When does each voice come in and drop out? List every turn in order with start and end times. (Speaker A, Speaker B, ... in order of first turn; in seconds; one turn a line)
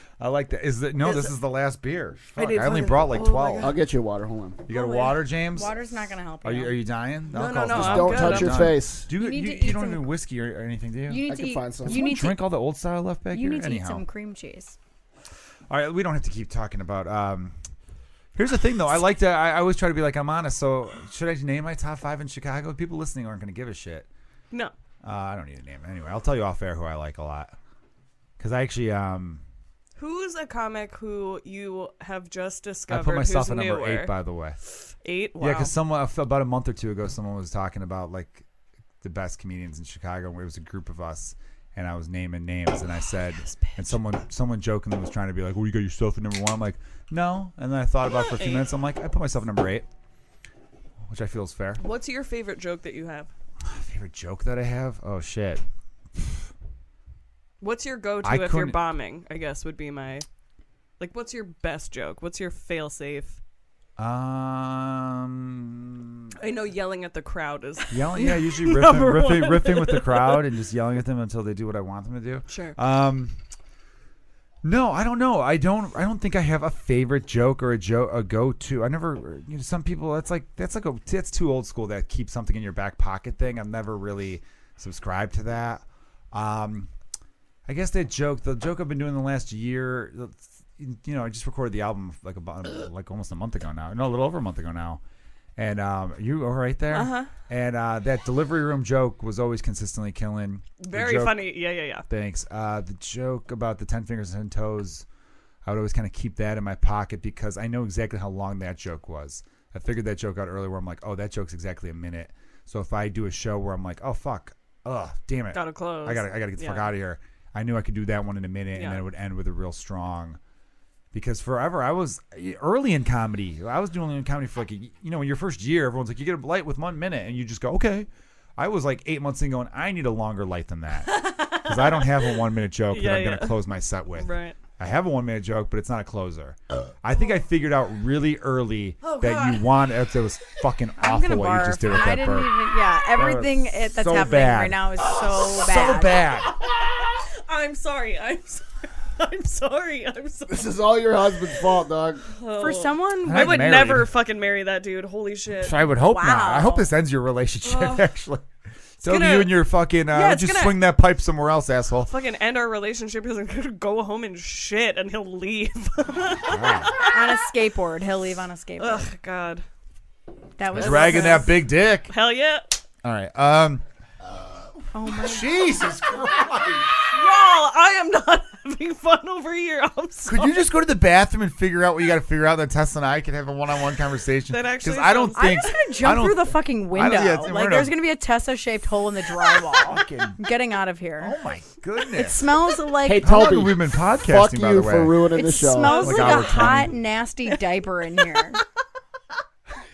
Speaker A: 0.2-3.7
Speaker B: 1.0-1.3
Speaker B: 2.3-3.8
Speaker C: 3.6-4.6
Speaker A: 4.7-5.7
Speaker D: 4.7-6.8
Speaker A: 6.4-11.2
Speaker B: 7.3-8.8
Speaker C: 7.7-9.1
Speaker D: 9.1-10.1
Speaker D: 11.1-12.4
Speaker C: 11.2-12.1
Speaker A: 11.8-14.0
Speaker D: 13.3-14.8
Speaker A: 15.7-17.6
Speaker A: 18.3-24.1
Speaker A: 25.0-27.5
Speaker A: 28.4-29.4
Speaker B: 30.0-34.1
Speaker A: 32.9-34.6
Speaker B: 34.9-35.7
Speaker A: 35.4-38.4
Speaker A: 39.0-49.9
Speaker B: 43.4-44.0
Speaker B: 48.2-48.7
Speaker A: 51.0-51.8
Speaker B: 51.8-53.3
Speaker A: 53.6-55.6
Speaker B: 57.6-60.2
Speaker A: 58.2-58.8
Speaker B: 61.0-63.4
Speaker A: 64.0-66.3
Speaker B: 66.4-70.5
Speaker A: 67.9-73.4
Speaker B: 72.5-72.8
Speaker A: 74.6-86.9
Speaker A: 87.7-95.0
Speaker A: 95.5-101.5
Speaker B: 96.9-97.3
Speaker B: 100.8-102.1
Speaker A: 102.1-105.0
Speaker A: 105.6-120.4
Speaker B: 115.5-116.9
Speaker B: 118.7-119.0
Speaker A: 121.1-142.6
Speaker B: 131.0-134.6
Speaker B: 139.0-139.7
Speaker D: 141.0-146.2
Speaker A: 143.1-146.5
Speaker B: 146.5-155.9
Speaker C: 150.5-152.2
Speaker D: 152.6-153.7
Speaker A: 153.2-154.1
Speaker A: 155.6-158.4
Speaker D: 156.1-156.9
Speaker B: 157.6-158.1
Speaker B: 159.0-160.8
Speaker A: 159.0-162.1
Speaker B: 162.1-167.3
Speaker A: 166.4-166.9
Speaker D: 167.0-169.1
Speaker B: 168.8-169.6
Speaker D: 170.6-171.6
Speaker A: 170.7-172.1
Speaker B: 170.8-172.8
Speaker A: 173.0-173.8
Speaker D: 174.9-175.5
Speaker A: 175.1-177.0
Speaker B: 177.0-180.6
Speaker A: 180.3-187.9
Speaker B: 184.5-185.8
Speaker D: 185.3-191.3
Speaker A: 189.7-190.4
Speaker A: 191.2-192.6
Speaker D: 192.1-193.4
Speaker C: 193.0-196.4
Speaker A: 193.2-195.2
Speaker D: 195.3-198.6
Speaker B: 195.8-196.7
Speaker A: 195.9-196.9